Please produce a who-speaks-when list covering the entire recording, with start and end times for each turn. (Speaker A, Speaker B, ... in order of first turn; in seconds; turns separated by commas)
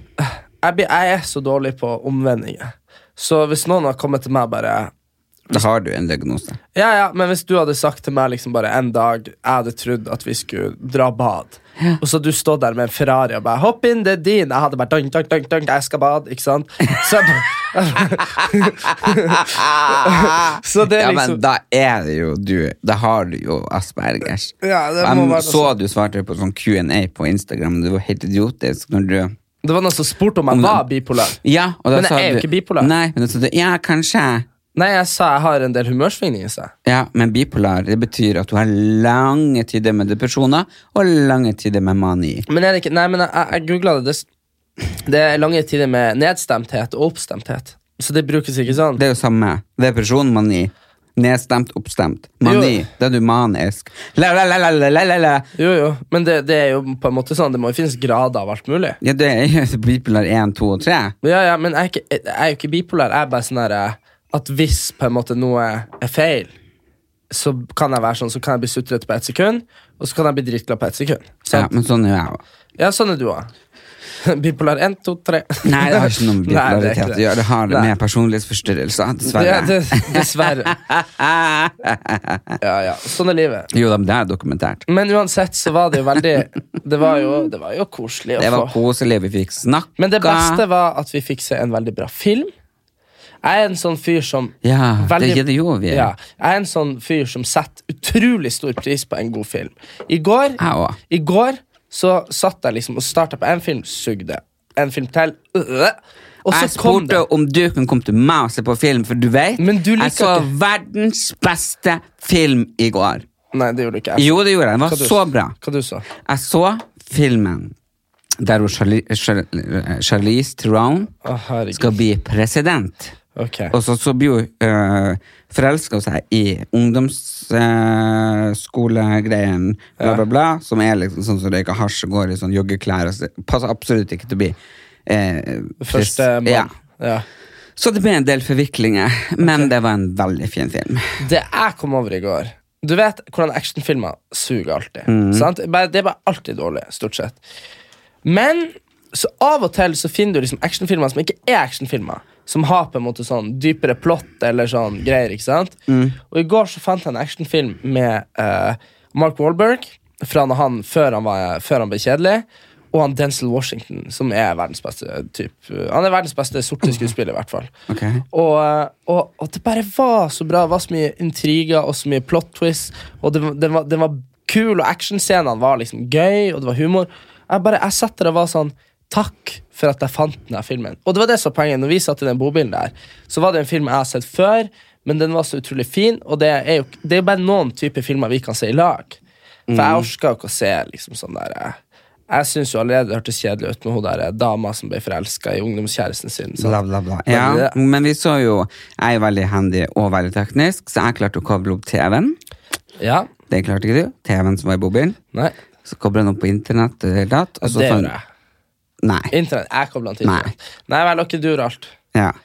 Speaker A: 0.2-4.9, Speaker B: 5.5-6.6, Speaker A: 6.7-21.4, Speaker B: 19.1-29.3, Speaker A: 24.6-25.7, Speaker A: 29.6-31.4, Speaker B: 30.5-34.5, Speaker A: 31.9-32.9, Speaker A: 34.7-36.7, Speaker B: 36.8-42.5, Speaker A: 42.5-44.2, Speaker A: 45.0-49.0, Speaker B: 48.9-55.5, Speaker A: 52.4-52.8, Speaker A: 55.5-59.0, Speaker B: 59.0-61.1, Speaker A: 61.2-66.5, Speaker A: 67.3-71.7, Speaker B: 71.5-72.4, Speaker A: 72.8-73.5, Speaker A: 74.2-77.9, Speaker B: 75.6-82.6, Speaker A: 79.3-80.8, Speaker A: 82.6-83.7, Speaker B: 83.7-84.8, Speaker A: 84.9-88.8, Speaker B: 88.4-90.6, Speaker A: 90.0-92.5, Speaker A: 93.4-107.2, Speaker B: 94.6-96.1, Speaker B: 100.6-101.0, Speaker B: 106.5-113.2, Speaker A: 109.6-110.5, Speaker A: 113.5-116.0, Speaker B: 114.2-115.5, Speaker B: 116.2-117.7, Speaker B: 118.4-121.1, Speaker A: 121.2-121.9, Speaker B: 121.7-123.1, Speaker A: 123.3-123.7, Speaker B: 123.7-136.7, Speaker A: 135.8-137.2, Speaker B: 137.8-141.2, Speaker A: 139.4-139.7, Speaker A: 141.2-147.4, Speaker B: 145.1-145.5, Speaker A: 148.2-167.7, Speaker B: 155.9-156.2, Speaker B: 167.9-168.2, Speaker A: 168.3-189.2, Speaker B: 189.7-190.1, Speaker A: 189.7-191.8, Speaker A: 192.3-197.8, Speaker B: 196.6-202.4, Speaker A: 203.0-203.3, Speaker B: 203.5-205.2, Speaker B: 205.8-208.1, Speaker A: 207.6-208.2, Speaker B: 209.0-209.3, Speaker A: 209.3-211.9, Speaker B: 210.2-210.5